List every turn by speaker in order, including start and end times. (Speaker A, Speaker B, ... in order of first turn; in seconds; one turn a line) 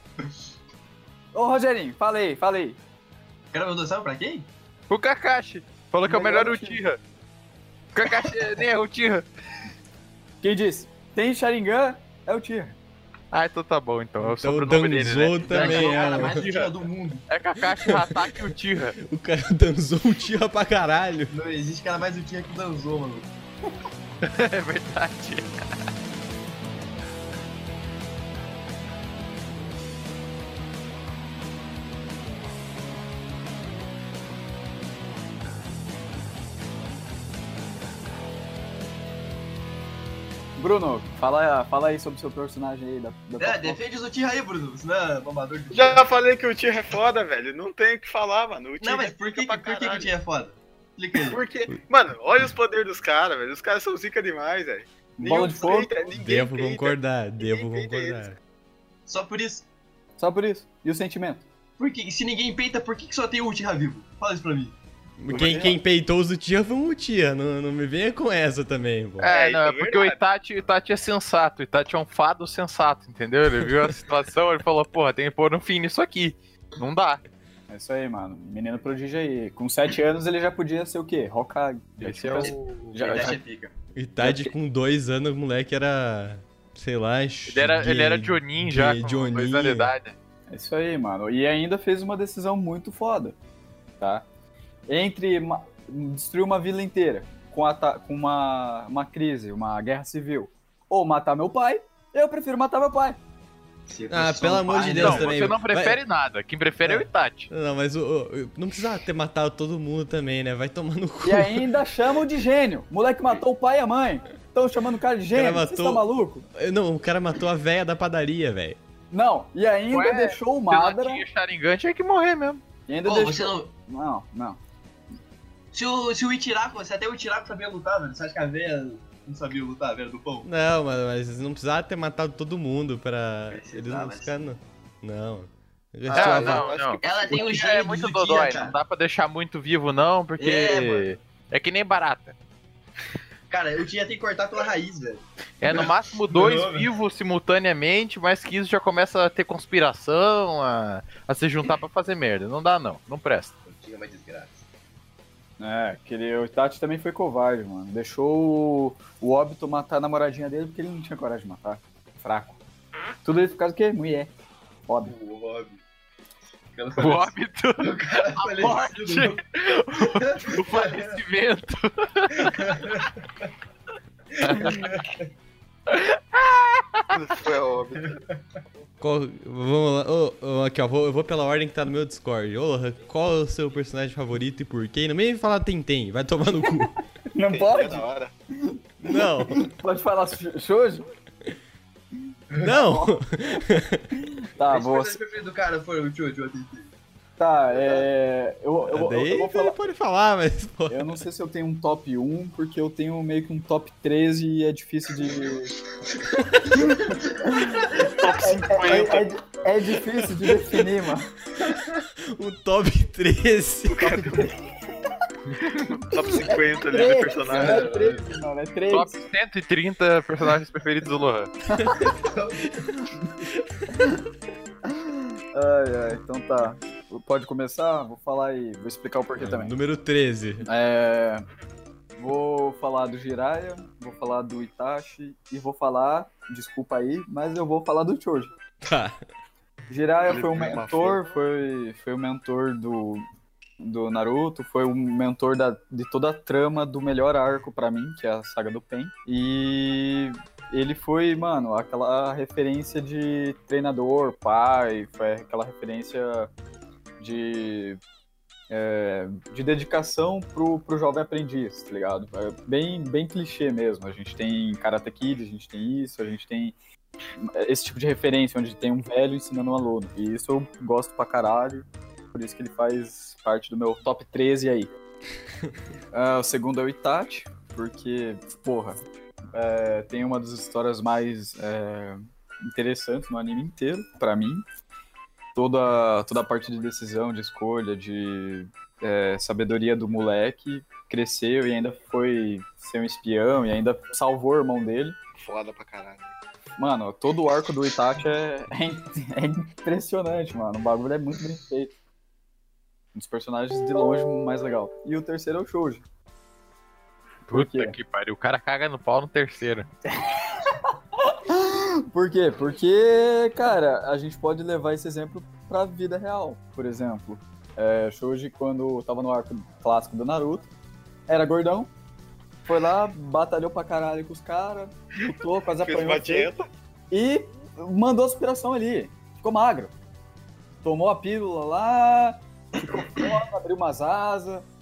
Speaker A: 1.3-2.8
Speaker B: 3.5-4.5
Speaker C: 4.9-7.0
Speaker A: 6.0-6.8
Speaker C: 7.9-9.2
Speaker A: 10.4-12.8
Speaker C: 13.3-16.7
Speaker D: 14.2-16.4
Speaker B: 15.4-17.2
Speaker C: 17.3-18.9
Speaker D: 17.9-18.2
Speaker D: 19.0-21.3
Speaker B: 21.3-23.3
Speaker C: 24.2-25.6
Speaker A: 40.6-43.8
Speaker B: 43.4-46.1
Speaker E: 45.7-50.1
Speaker B: 48.8-51.4
Speaker E: 51.2-54.9
Speaker A: 55.2-55.9
Speaker B: 55.2-55.6
Speaker E: 55.5-58.2
Speaker D: 56.1-58.4
Speaker B: 59.1-59.6
Speaker A: 60.2-61.4
Speaker B: 61.8-64.8
Speaker D: 65.2-69.3
Speaker E: 65.3-65.7
Speaker C: 69.2-77.2
Speaker E: 69.3-70.2
Speaker A: 77.7-83.4
Speaker C: 82.0-83.3
Speaker B: 82.9-83.7
Speaker D: 83.9-89.9
Speaker A: 84.2-84.5
Speaker C: 87.5-90.1
Speaker A: 90.5-93.3
Speaker A: 94.9-103.2
Speaker B: 103.9-105.4
Speaker D: 104.1-106.0
Speaker C: 104.9-107.5
Speaker D: 106.8-111.7
Speaker A: 111.2-116.4
Speaker D: 115.3-118.8
Speaker A: 119.1-121.2
Speaker C: 119.9-122.6
Speaker A: 122.9-124.6
Speaker B: 123.0-123.7
Speaker B: 125.7-130.5
Speaker D: 130.4-136.7
Speaker B: 133.5-134.3
Speaker E: 136.1-137.4
Speaker C: 136.1-142.3
Speaker B: 137.0-138.7
Speaker B: 140.4-141.1
Speaker B: 143.5-146.9
Speaker C: 145.6-153.5
Speaker B: 153.7-154.6
Speaker A: 155.6-162.6
Speaker A: 163.2-164.3
Speaker A: 164.9-165.1
Speaker B: 165.0-165.8
Speaker B: 166.7-169.4
Speaker C: 167.0-173.0
Speaker B: 170.0-171.2
Speaker B: 172.4-173.5
Speaker B: 174.3-175.2
Speaker C: 174.4-174.9
Speaker C: 175.9-177.1
Speaker E: 177.1-178.2
Speaker D: 179.0-187.0
Speaker A: 187.3-188.1
Speaker E: 187.4-188.3
Speaker A: 188.6-191.1
Speaker D: 189.0-189.6
Speaker D: 192.6-194.1
Speaker A: 192.6-193.2
Speaker A: 194.2-195.2
Speaker B: 194.7-196.9
Speaker A: 197.4-199.8
Speaker E: 197.7-198.1
Speaker D: 198.9-201.2
Speaker A: 200.9-205.7
Speaker A: 206.7-211.3
Speaker E: 207.9-209.4
Speaker D: 212.3-214.4
Speaker E: 213.9-214.6
Speaker E: 215.9-218.0
Speaker A: 216.2-219.2
Speaker B: 217.5-218.3
Speaker C: 218.9-221.5
Speaker A: 221.7-222.2
Speaker D: 221.8-222.1
Speaker B: 222.2-222.9
Speaker A: 224.9-229.7
Speaker D: 229.4-230.7
Speaker A: 230.6-231.4
Speaker A: 232.2-238.5
Speaker D: 238.8-239.2
Speaker A: 239.9-243.2
Speaker E: 240.2-241.2
Speaker A: 243.8-256.5
Speaker A: 257.2-258.0
Speaker A: 258.7-266.7
Speaker A: 267.4-274.9
Speaker A: 276.1-279.0
Speaker A: 279.5-284.6
Speaker A: 285.5-295.1
Speaker E: 295.4-296.4
Speaker A: 296.8-301.9
Speaker A: 303.1-306.0
Speaker C: 307.5-309.9
Speaker A: 307.5-307.9
Speaker A: 310.1-320.7
Speaker A: 321.3-321.9
Speaker A: 322.7-326.5
Speaker E: 325.7-326.7
Speaker A: 327.1-329.9
Speaker A: 330.8-334.6